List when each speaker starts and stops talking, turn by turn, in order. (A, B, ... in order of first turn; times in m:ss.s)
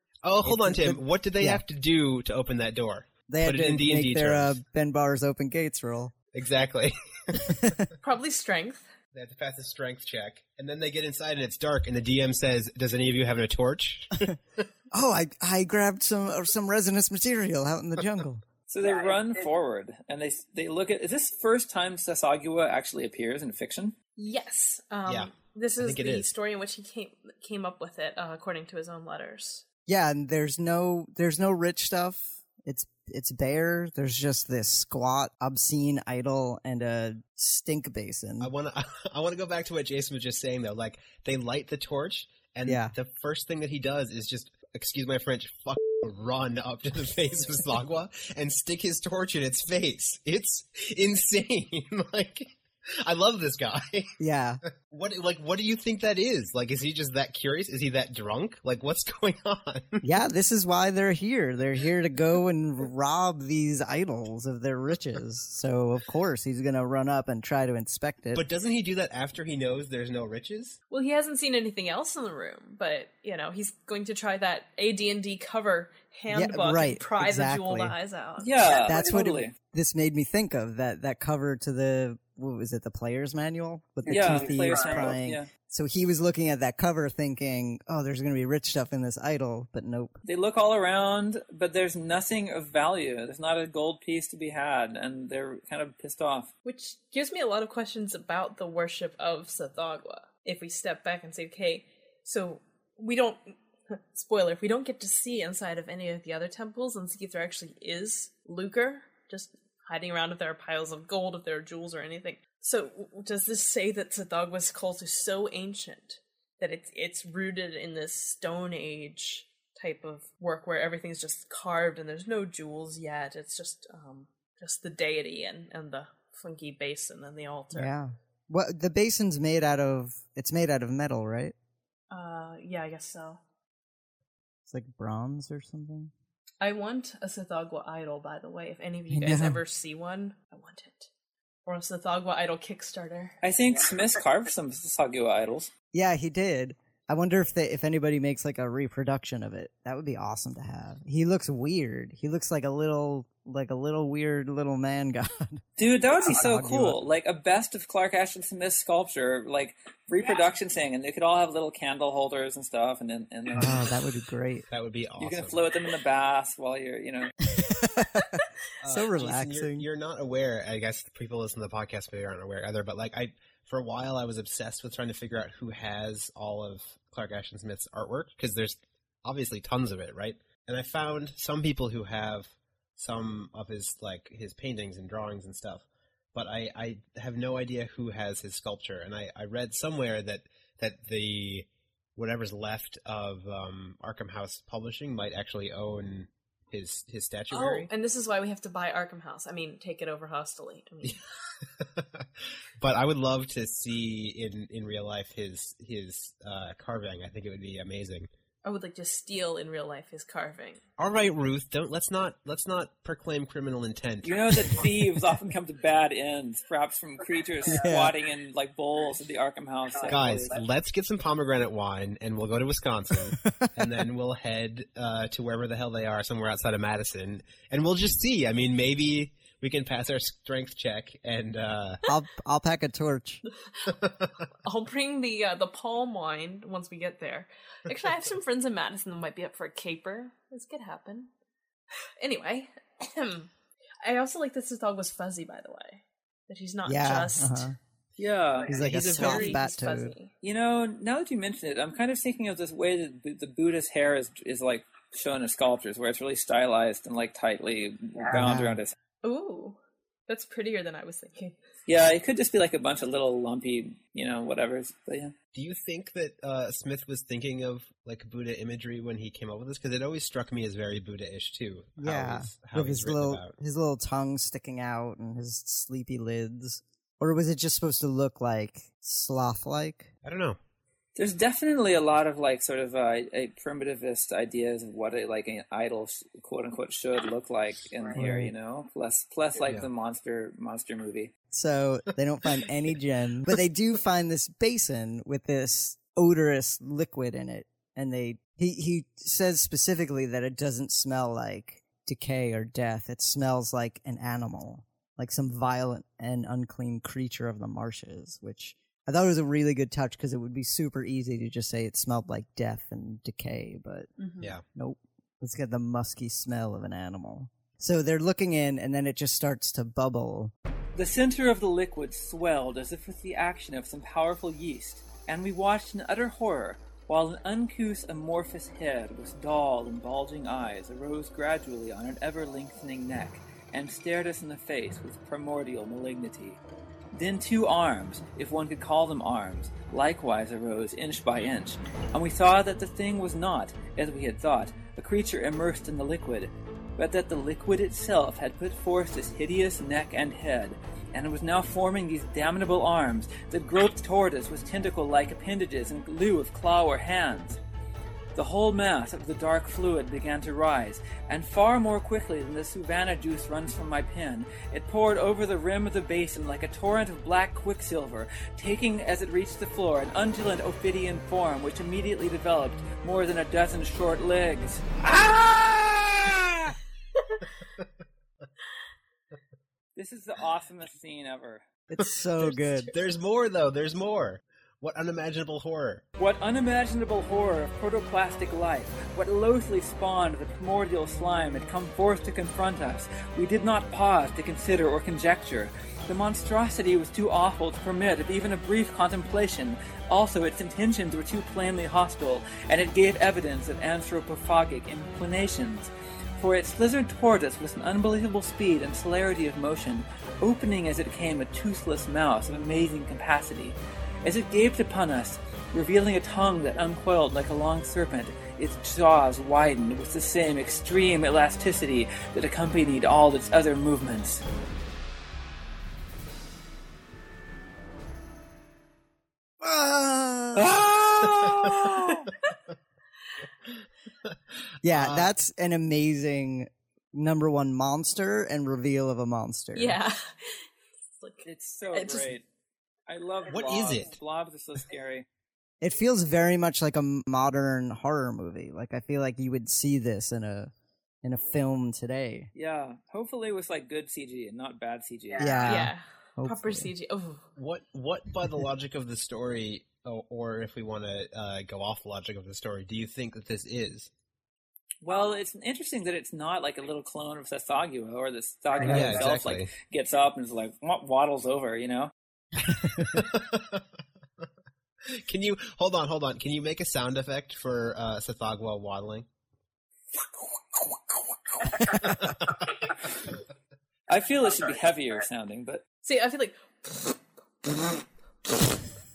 0:00.2-0:04.6 A
0:00.4-0:01.6 B
0:03.3-0:06.1 B
0:06.3-0:07.5 A
0:07.4-0:07.9 B
0:08.0-0:08.9 C
0:09.1-0:14.6 A
0:14.9-0:18.4 B
0:18.7-0:23.9 D
0:24.2-0:29.6 C
0:25.0-0:26.3 A
0:29.9-0:38.5 B
0:38.4-0:54.1 A
0:42.7-0:42.9 B
0:54.2-0:54.6 B
0:54.6-1:00.0 A
1:00.0-1:08.4 B
1:08.3-1:10.8 A
1:10.9-1:18.5 C
1:16.3-1:17.9 B
1:18.4-1:19.5 D
1:18.8-1:30.1 B
1:24.0-1:25.5 D
1:30.2-1:36.5 D
1:36.6-2:07.9 C
2:07.7-2:11.5 B
2:12.1-2:13.4 C
2:14.7-2:16.1 B
2:16.6-2:21.1 C
2:19.1-2:19.6 B
2:21.6-2:23.4 C
2:23.4-2:25.7 D
2:25.9-2:35.6 B
2:35.8-2:44.0 D
2:36.2-2:37.0 B
2:43.5-2:44.6 B
2:44.7-2:45.7 A
2:45.2-2:47.3 D
2:47.5-2:48.3 B
2:48.8-3:17.9 A
2:48.9-2:49.8 B
3:17.5-3:21.2 C
3:21.8-3:22.3 A
3:22.8-3:28.3 A
3:28.6-3:30.8 C
3:31.0-3:34.8 A
3:34.2-3:40.6 D
3:37.6-3:38.1 B
3:40.1-3:52.0 A
3:43.3-3:43.9 B
3:52.1-3:53.4 B
3:53.9-3:54.3 A
3:54.6-4:01.3 C
4:02.2-4:03.5 C
4:04.0-4:07.7 C
4:06.8-4:07.7 B
4:08.2-4:08.8 D
4:08.7-4:10.1 B
4:08.7-4:10.3 C
4:08.8-4:09.4 A
4:10.4-4:18.9 D
4:18.3-4:18.8 B
4:19.2-4:21.6 C
4:21.9-4:25.3 D
4:25.5-4:33.5 A
4:32.0-4:40.1 B
4:40.2-4:40.6 A
4:41.2-4:51.3 D
4:48.1-4:48.5 B
4:51.5-5:14.1 B
5:14.2-5:14.5 C
5:14.6-5:20.5 B
5:20.9-5:36.6 D
5:37.1-5:57.6 D
5:58.3-6:16.8 D
6:20.0-6:21.6 D
6:21.9-6:22.9 B
6:22.0-6:26.0 A
6:26.2-7:04.4 D
7:09.6-7:10.8 B
7:10.5-7:12.3 D
7:14.8-7:20.0 B
7:14.9-7:15.3 A
7:19.7-7:22.3 C
7:21.4-7:22.4 D
7:23.1-7:25.2 D
7:23.5-7:24.1 A
7:25.8-7:30.7 B
7:31.2-7:32.5 B
7:32.5-7:35.8 D
7:35.4-7:36.9 B
7:35.6-7:37.5 C
7:37.6-7:44.1 A
7:45.0-7:52.1 D
7:48.8-7:49.2 B
7:48.8-7:49.7 A
7:52.7-7:53.2 B
7:52.7-7:53.8 A
7:55.1-7:59.2 A
8:01.8-8:02.6 A
8:04.1-8:05.8 D
8:06.0-8:07.8 C